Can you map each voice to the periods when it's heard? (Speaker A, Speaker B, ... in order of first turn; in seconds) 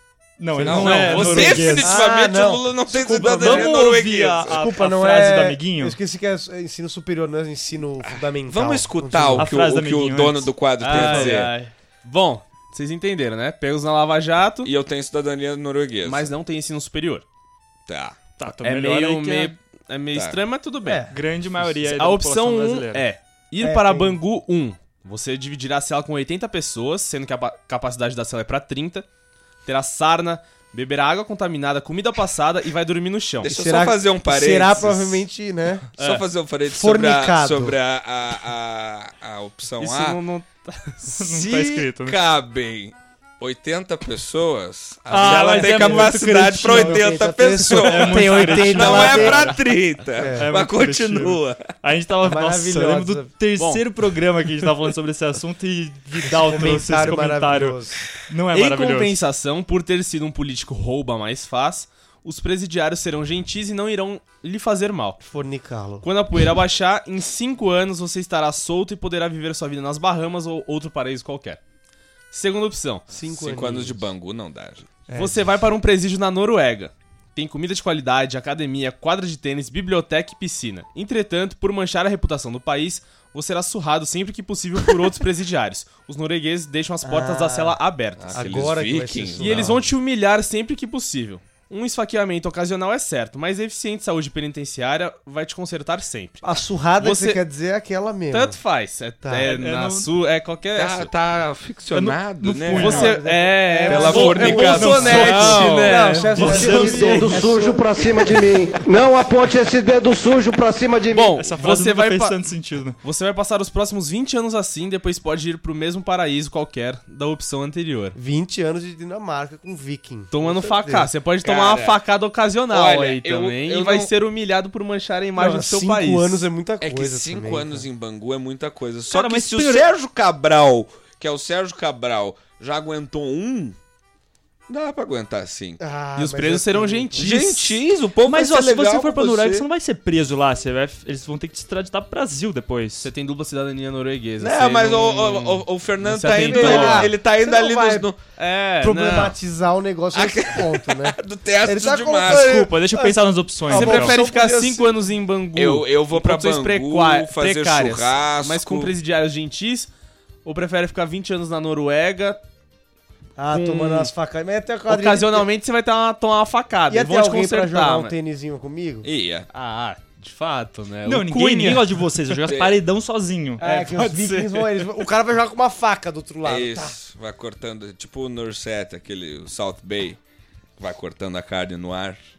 Speaker A: 0.4-2.0, 3.1-6.0, 9.3-11.2, 18.4-19.5, 21.1-23.1, 41.1-42.2, 45.1-47.1, 47.7-49.6, 50.3-59.1, 99.4-100.1, 101.9-103.2, 103.9-107.4, 111.3-113.0, 129.1-129.8, 138.2-143.1, 152.3-154.2, 171.0-173.6
Speaker B: 0.5-3.8, 4.5-9.5, 20.8-21.2, 23.6-24.2, 33.4-35.9, 36.6-37.8, 45.2-49.6, 50.2-50.5, 52.2-53.3, 56.3-58.0, 65.2-66.0, 73.1-74.1, 75.1-75.4, 87.0-87.8, 88.3-89.8, 96.4-98.6, 99.2-99.5, 102.7-108.4, 118.1-121.1, 125.3-127.8, 135.8-137.3, 146.3-148.1, 148.8-154.9, 163.3-165.5, 166.9-169.1, 173.6-176.9
Speaker C: 0.6-4.7, 8.1-11.5, 14.6-16.3, 17.9-18.2, 20.1-20.4, 33.4-35.2, 36.0-40.2, 41.3-51.6, 73.3-75.0, 88.2-89.8, 100.7-103.1, 103.9-105.7, 121.4-122.0, 122.7-124.1, 126.8-133.8, 134.7-135.8, 137.2-139.7, 144.4-148.2, 150.1-152.7, 155.6-158.9, 169.0-169.5, 172.4-172.8, 176.4-180.2, 180.8-182.2
Speaker D: 0.7-1.8, 10.8-14.7, 16.0-17.2, 18.5-21.0, 21.8-29.1, 29.6-33.5, 36.0-36.2, 39.8-41.2, 45.2-45.5, 48.1-48.9, 53.6-53.9, 58.5-65.2, 66.0-71.6, 72.3-73.0, 75.1-88.4, 89.4-96.4, 97.0-97.4, 98.3-101.1, 102.8-107.2, 111.1-112.4, 113.0-118.2, 120.3-126.5, 136.2-137.6, 143.0-147.1, 148.4-149.3, 153.7-159.9, 160.4-162.4, 163.5-164.1, 164.9-168.1, 169.5-172.0, 173.6-174.8
Speaker E: 106.5-111.3